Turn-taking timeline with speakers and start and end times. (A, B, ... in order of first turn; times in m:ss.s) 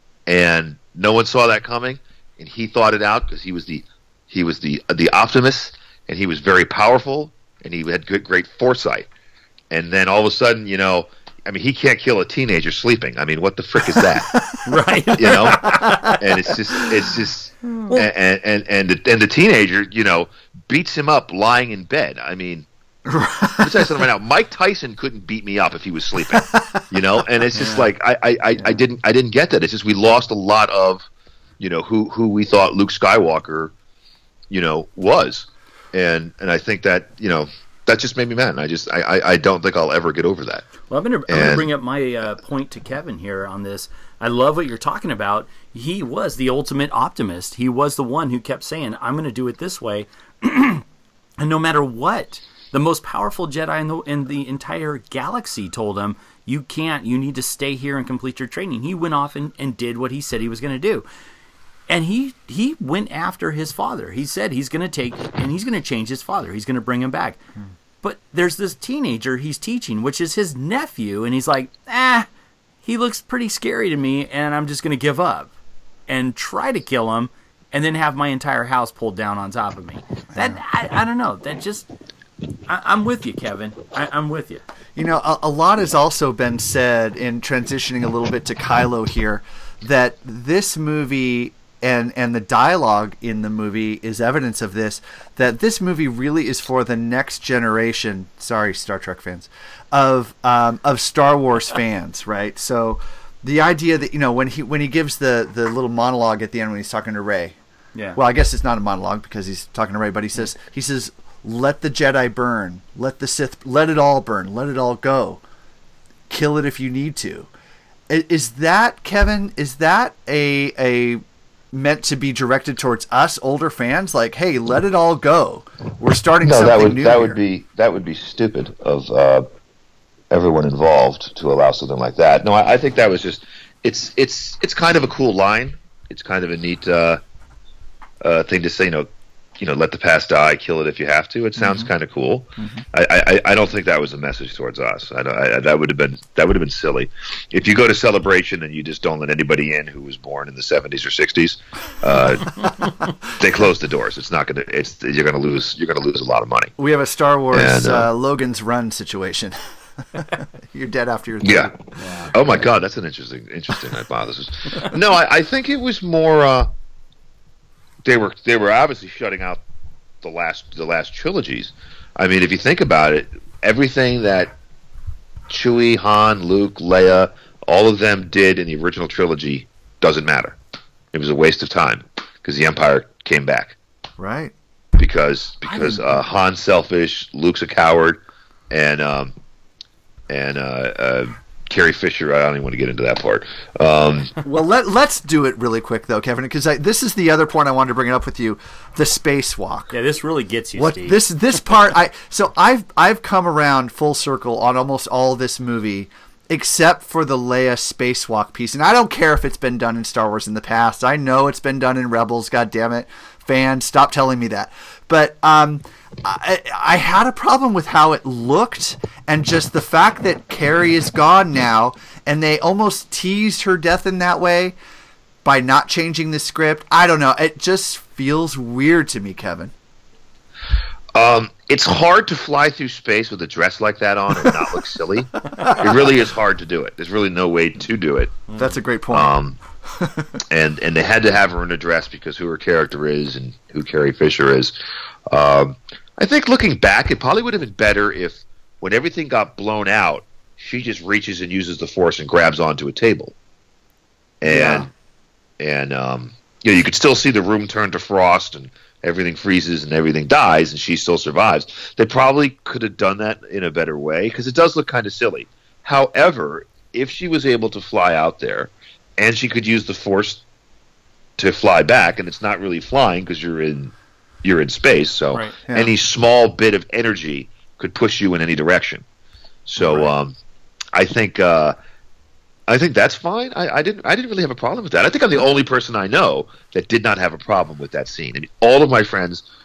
0:00.3-0:09.1 A
0:09.7-0:14.4 A
0:14.6-0:16.2 B
0:15.2-0:22.7 A
0:15.6-0:16.1 C
0:23.1-0:23.7 C
0:23.6-0:31.0 A
0:31.6-0:33.7 A
0:34.5-0:40.7 A
0:40.9-0:50.8 B
0:41.3-0:41.7 A
0:51.4-1:01.0 B
1:01.9-1:07.4 B
1:08.0-1:12.3 B
1:12.8-1:15.5 B
1:16.1-1:21.8 B
1:22.7-1:24.6 B
1:25.0-1:47.6 C
1:48.1-1:55.4 C
1:56.3-1:57.5 C
1:58.1-2:01.2 C
2:01.7-2:07.4 C
2:06.4-2:09.4 A
2:10.3-2:17.2 A
2:18.2-2:19.1 A
2:19.6-2:32.6 A
2:33.3-2:36.7 A
2:36.8-2:39.5 C
2:37.5-2:38.1 A
2:40.1-2:42.3 C
2:41.4-2:41.7 A
2:42.0-2:42.3 B
2:42.3-2:46.7 A
2:48.0-2:49.6 A
2:50.2-2:54.5 A
2:55.5-3:00.6 A
3:01.1-3:03.8 A
3:04.2-3:04.5 C
3:05.0-3:09.3 A
3:05.7-3:06.0 C
3:10.3-3:14.3 A
3:14.4-3:19.9 C
3:19.9-3:21.2 B
3:20.8-3:44.7 C
3:45.4-3:49.7 C
3:51.1-3:58.4 A
3:58.6-3:59.3 C
3:59.1-3:59.6 A
4:00.5-4:04.7 A
4:05.3-4:13.3 A
4:14.4-4:14.9 A
4:14.4-4:14.9 C
4:15.6-4:30.4 A
4:31.4-4:39.0 A
4:35.3-4:35.6 B
4:35.7-4:35.9 C
4:39.6-4:40.4 A
4:39.8-4:40.1 C
4:40.9-4:41.8 A
4:42.7-4:49.4 A